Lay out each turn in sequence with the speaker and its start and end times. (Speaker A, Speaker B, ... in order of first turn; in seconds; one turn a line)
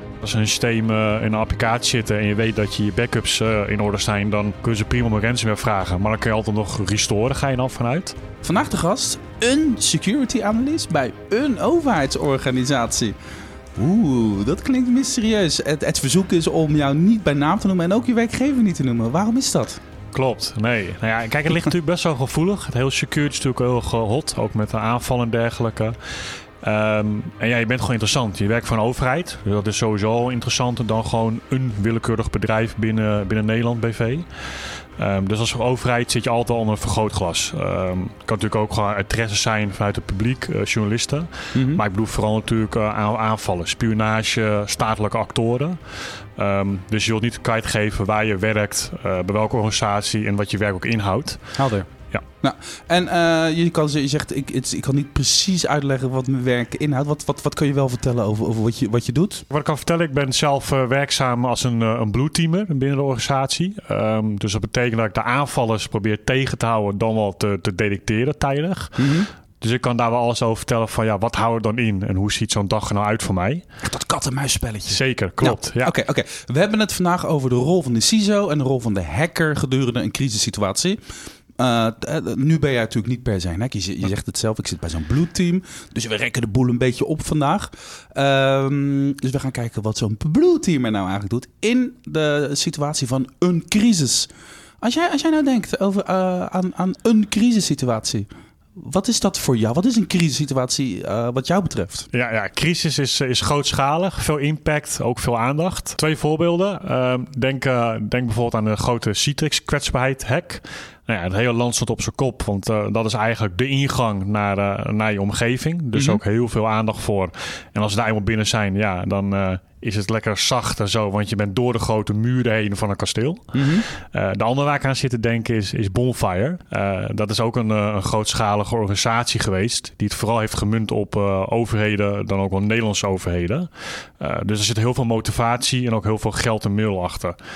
Speaker A: 0.2-8.2
Speaker B: 8.4-13.2
Speaker B: 13.8-19.8
Speaker A: 20.1-25.9
Speaker A: 26.6-34.3
Speaker A: 35.0-45.8
Speaker B: 41.5-41.8
Speaker A: 46.4-51.4
Speaker B: 51.6-51.9
Speaker B: 52.4-59.5
Speaker A: 59.5-69.1
Speaker B: 69.0-69.3
Speaker A: 69.6-73.7
Speaker B: 73.8-81.0
Speaker A: 74.9-75.9
Speaker B: 81.6-94.3
Speaker B: 94.8-102.1
Speaker A: 102.1-133.7
Speaker B: 115.9-116.2
Speaker B: 123.5-123.9
Speaker A: 134.2-137.4